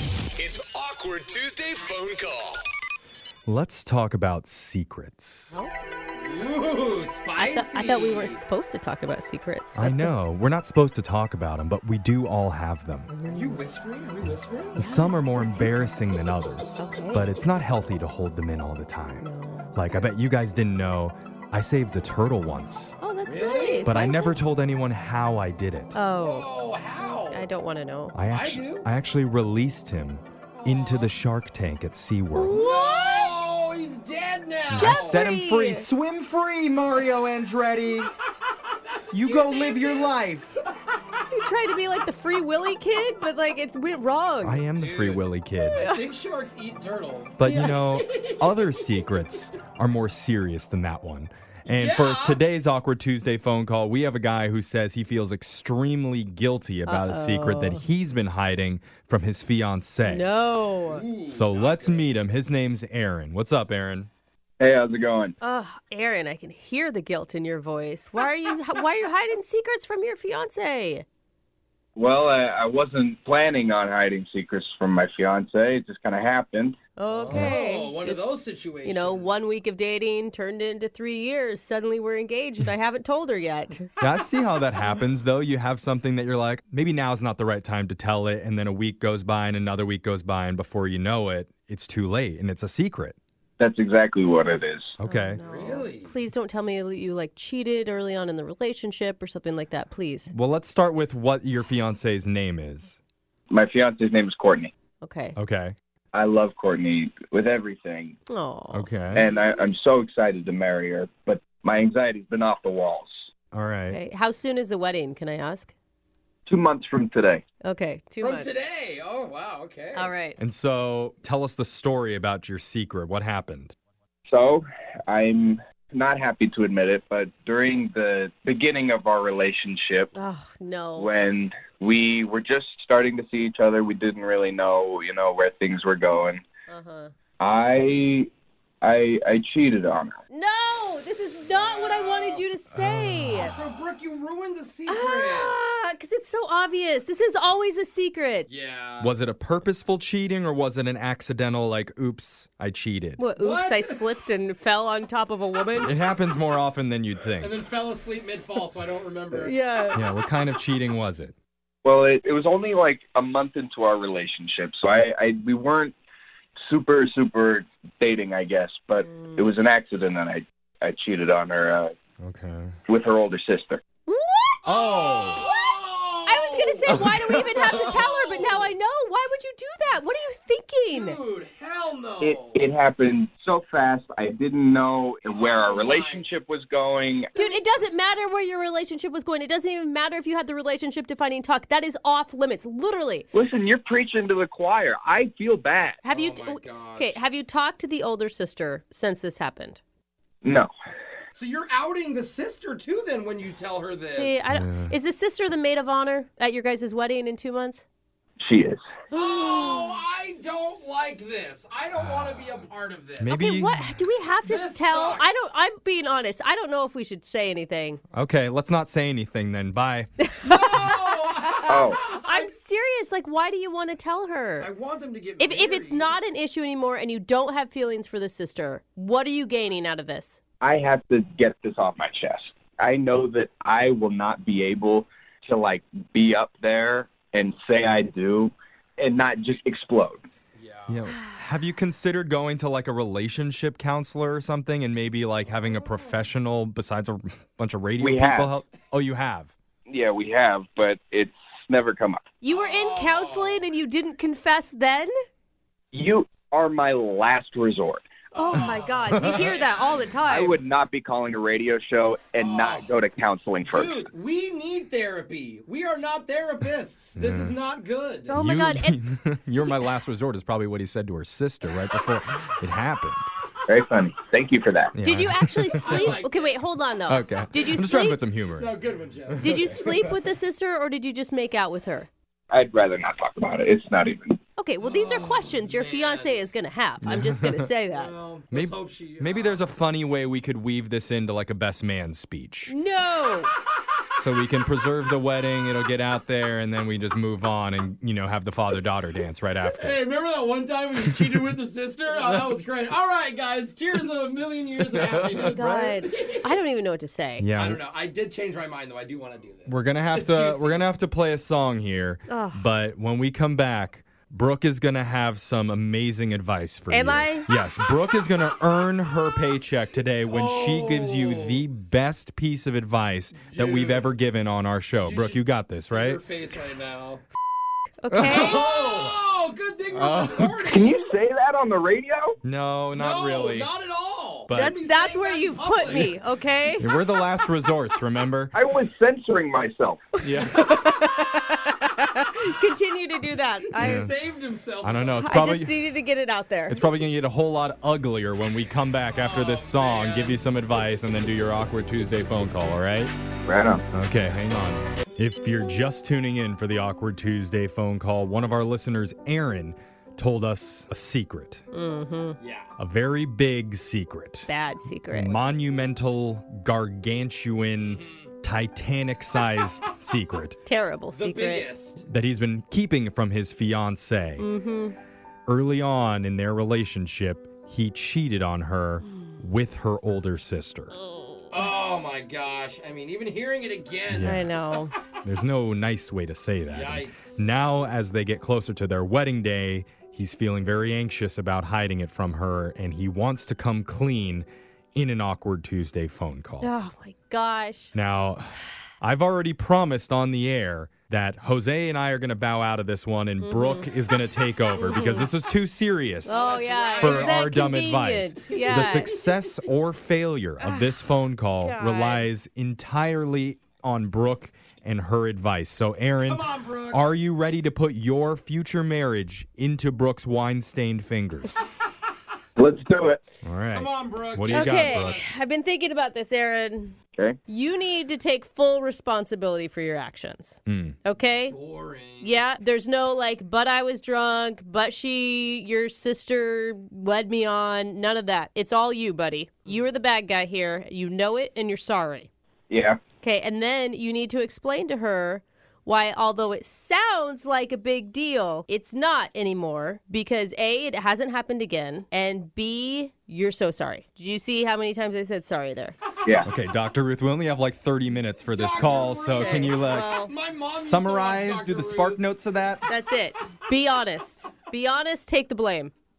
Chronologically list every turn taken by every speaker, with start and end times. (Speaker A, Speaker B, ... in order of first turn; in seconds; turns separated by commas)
Speaker A: 0.3-2.7, Speaker B: 3.5-5.6, Speaker C: 6.1-8.4, Speaker D: 7.4-10.1, Speaker B: 9.7-13.1, Speaker D: 13.1-13.6, Speaker C: 13.3-14.8, Speaker D: 14.8-15.7, Speaker B: 14.8-23.0, Speaker D: 16.8-17.3, Speaker D: 19.2-20.0, Speaker D: 23.0-24.4, Speaker C: 23.2-24.0, Speaker B: 23.8-25.9, Speaker D: 25.9-28.1, Speaker C: 26.2-27.4, Speaker B: 28.1-32.6, Speaker C: 28.3-28.9, Speaker C: 30.5-31.1, Speaker D: 32.3-33.4, Speaker C: 32.5-35.2, Speaker B: 34.7-38.1, Speaker D: 34.7-35.9, Speaker C: 39.0-40.6, Speaker B: 39.1-40.6, Speaker D: 41.3-44.6, Speaker B: 44.4-45.8, Speaker C: 44.7-48.7, Speaker D: 45.8-46.0, Speaker B: 47.4-60.3, Speaker D: 47.4-47.7, Speaker C: 51.7-52.4, Speaker D: 56.9-57.8, Speaker D: 60.0-61.0, Speaker C: 60.9-62.1, Speaker B: 61.3-64.1, Speaker E: 64.6-65.3, Speaker D: 65.4-71.0, Speaker E: 72.0-76.8, Speaker D: 77.0-78.3, Speaker C: 77.1-79.4, Speaker D: 78.8-83.9, Speaker B: 84.0-93.2, Speaker E: 93.6-95.0, Speaker B: 95.0-95.4, Speaker D: 95.0-100.3, Speaker C: 95.4-96.1, Speaker B: 100.3-103.0, Speaker E: 103.5-104.7, Speaker D: 105.0-105.3, Speaker B: 105.3-105.7, Speaker E: 106.1-108.2, Speaker D: 108.3-109.0, Speaker B: 108.7-109.2, Speaker E: 109.1-113.2, Speaker B: 113.5-114.0, Speaker D: 113.9-115.7, Speaker E: 116.5-117.4, Speaker D: 117.6-118.5, Speaker C: 118.2-120.1, Speaker D: 119.9-120.4, Speaker B: 120.4-123.7, Speaker E: 124.3-130.1, Speaker D: 130.1-131.1, Speaker E: 130.9-136.4, Speaker D: 136.7-137.1, Speaker E: 137.4-138.3, Speaker E: 138.8-140.2, Speaker D: 140.3-143.5, Speaker C: 141.4-142.4, Speaker B: 142.8-143.4, Speaker C: 143.3-145.7, Speaker D: 144.9-148.5, Speaker C: 148.5-149.1, Speaker B: 149.0-153.2, Speaker D: 153.2-155.9, Speaker C: 153.4-154.0, Speaker B: 155.8-157.5, Speaker C: 157.4-159.5, Speaker D: 159.3-160.0, Speaker B: 159.9-161.3, Speaker E: 161.8-165.9, Speaker E: 166.6-171.9, Speaker B: 172.2-172.8, Speaker E: 172.9-173.8, Speaker D: 174.1-174.6, Speaker C: 174.6-178.7, Speaker B: 174.7-175.4, Speaker D: 175.4-181.2, Speaker B: 176.9-177.3, Speaker C: 180.9-182.6, Speaker E: 182.2-187.3, Speaker C: 185.3-186.2, Speaker D: 187.3-193.2, Speaker E: 193.3-196.0, Speaker D: 196.0-199.8, Speaker C: 196.1-197.2, Speaker E: 200.4-200.7, Speaker C: 201.3-204.4, Speaker D: 204.1-207.8, Speaker B: 204.5-204.9, Speaker E: 208.4-208.8, Speaker D: 209.1-209.9, Speaker C: 209.1-213.4, Speaker B: 212.0-212.6, Speaker B: 213.2-213.8, Speaker D: 213.3-218.0, Speaker C: 214.4-215.6, Speaker B: 218.1-220.1, Speaker D: 220.2-220.9, Speaker C: 220.4-222.5, Speaker D: 221.5-224.7, Speaker E: 221.7-222.0, Speaker C: 224.6-226.2, Speaker D: 225.4-230.4, Speaker E: 230.6-240.2, Speaker C: 240.6-241.1, Speaker B: 240.9-249.5, Speaker D: 241.1-241.4, Speaker C: 245.5-245.8, Speaker E: 248.0-248.5, Speaker E: 249.9-252.2, Speaker D: 252.4-255.1, Speaker C: 252.5-253.7, Speaker E: 255.9-258.1, Speaker C: 258.3-260.1, Speaker D: 258.3-260.6, Speaker E: 260.3-264.0, Speaker C: 262.4-262.9, Speaker C: 263.7-268.4, Speaker B: 267.1-267.6, Speaker D: 268.3-268.9, Speaker B: 268.4-273.3, Speaker E: 273.7-274.9, Speaker B: 274.9-276.2, Speaker D: 275.0-278.2, Speaker C: 275.8-276.6, Speaker B: 277.1-278.7, Speaker C: 278.5-280.2, Speaker B: 279.3-279.8, Speaker D: 279.4-282.1, Speaker E: 282.5-284.4, Speaker D: 284.6-288.1, Speaker C: 284.8-286.4, Speaker B: 287.0-287.7, Speaker C: 287.9-289.6, Speaker B: 288.5-292.7, Speaker D: 292.7-293.5, Speaker B: 294.2-300.0, Speaker C: 299.6-306.4, Speaker B: 304.8-305.9, Speaker D: 305.4-307.5, Speaker B: 307.4-307.8, Speaker C: 307.6-310.9, Speaker B: 309.6-326.2, Speaker D: 312.3-312.6, Speaker D: 316.9-317.5, Speaker C: 320.3-321.6, Speaker C: 323.3-324.1, Speaker C: 325.0-327.2, Speaker D: 328.0-328.6, Speaker B: 328.1-329.1, Speaker C: 328.3-331.1, Speaker B: 329.9-330.6, Speaker E: 330.6-332.4, Speaker B: 332.4-333.7, Speaker C: 332.9-336.1, Speaker B: 334.5-334.8, Speaker D: 334.5-336.8, Speaker B: 336.8-338.5, Speaker E: 338.5-340.1, Speaker B: 340.2-340.6, Speaker D: 340.4-344.1, Speaker C: 343.7-345.2, Speaker B: 343.8-344.1, Speaker B: 344.8-345.8, Speaker D: 345.2-346.8, Speaker B: 346.7-353.1, Speaker C: 349.1-350.4, Speaker E: 353.4-353.8, Speaker B: 353.9-361.6, Speaker D: 361.7-362.4, Speaker C: 362.4-362.7, Speaker B: 362.8-364.5, Speaker D: 364.5-365.4, Speaker B: 365.1-370.6, Speaker C: 367.8-368.3, Speaker D: 370.6-371.7, Speaker C: 371.1-372.0, Speaker B: 372.1-374.4, Speaker D: 374.4-374.9, Speaker B: 375.5-380.9, Speaker D: 379.1-379.4, Speaker D: 380.9-381.6, Speaker C: 381.5-384.5, Speaker B: 384.1-384.5, Speaker D: 384.2-384.9, Speaker B: 385.2-396.7, Speaker C: 386.7-387.5, Speaker D: 396.6-397.9, Speaker B: 397.9-406.4, Speaker D: 403.4-403.9, Speaker D: 404.8-405.3, Speaker C: 406.2-407.4, Speaker D: 406.2-409.1, Speaker B: 407.0-421.6, Speaker C: 408.5-409.4, Speaker D: 410.6-411.0, Speaker D: 411.6-412.3, Speaker C: 416.2-417.0, Speaker E: 422.6-423.2, Speaker B: 423.4-425.3, Speaker C: 423.7-425.4, Speaker D: 424.5-426.9, Speaker D: 427.5-431.6, Speaker B: 430.6-430.9, Speaker C: 431.5-432.4, Speaker D: 432.2-442.3, Speaker E: 442.7-443.0, Speaker D: 443.2-455.9, Speaker B: 456.4-460.1, Speaker C: 458.4-462.2, Speaker D: 459.3-460.3, Speaker B: 460.7-462.8, Speaker D: 462.9-465.9